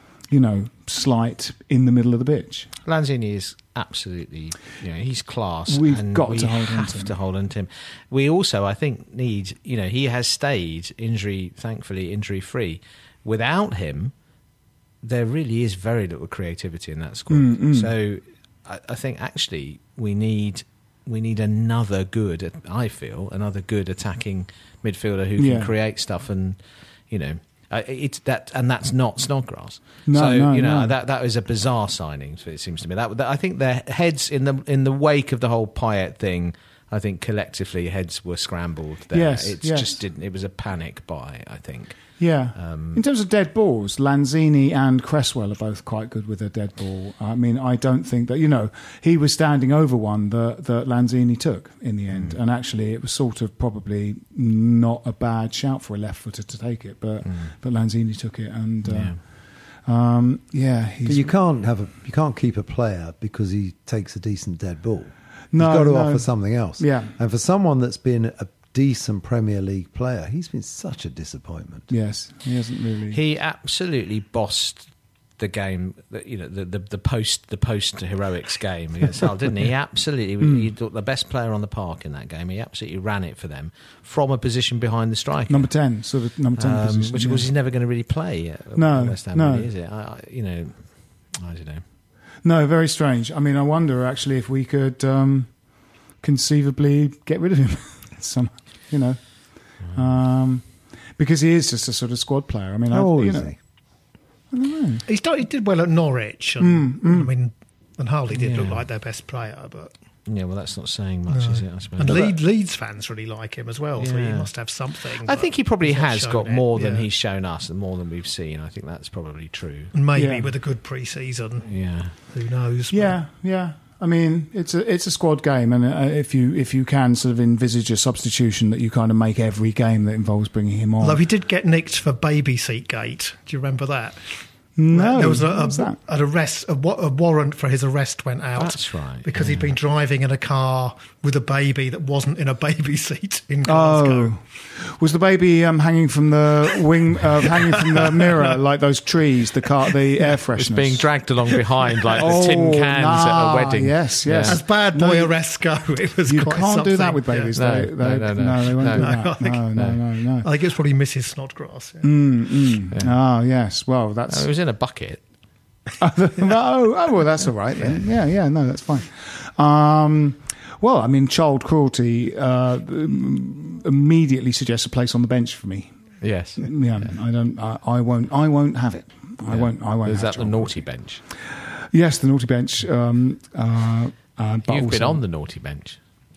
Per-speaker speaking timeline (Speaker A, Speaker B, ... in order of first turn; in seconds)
Speaker A: 0.3-2.7, 5.7-7.1, 17.3-17.9, 25.4-25.7, 30.1-30.9, 39.1-40.0, 42.2-59.2, 59.9-61.3, 65.5-67.1, 71.9-73.2, 80.4-80.7, 85.5-87.5, 88.8-89.7, 92.4-95.5, 96.2-99.2, 99.8-100.7, 101.2-103.5, 104.5-105.0, 106.6-107.3, 112.0-112.3, 120.2-120.5, 122.9-131.2, 134.8-136.0, 143.7-151.1, 152.2-155.3, 156.3-160.5, 162.0-164.5, 166.0-175.9, 176.6-180.8, 181.9-185.2
Speaker B: 2.9-14.1, 15.0-26.6, 27.1-43.0, 52.1-52.4, 58.9-59.2, 73.1-74.9, 75.4-85.7, 86.6-91.8, 108.3-108.8, 110.3-112.3, 114.0-114.5, 115.2-119.9, 121.7-122.1, 138.6-139.8, 150.6-154.6, 157.6-159.2, 164.3-165.2, 167.8-168.1, 176.2-177.0, 179.5-181.2, 184.7-186.0
Speaker C: 61.0-71.9, 102.9-103.6
Speaker D: 105.1-109.9, 111.3-117.1, 119.9-121.7, 122.2-123.2, 131.0-144.4, 154.5-157.6, 159.0-159.7, 160.4-162.1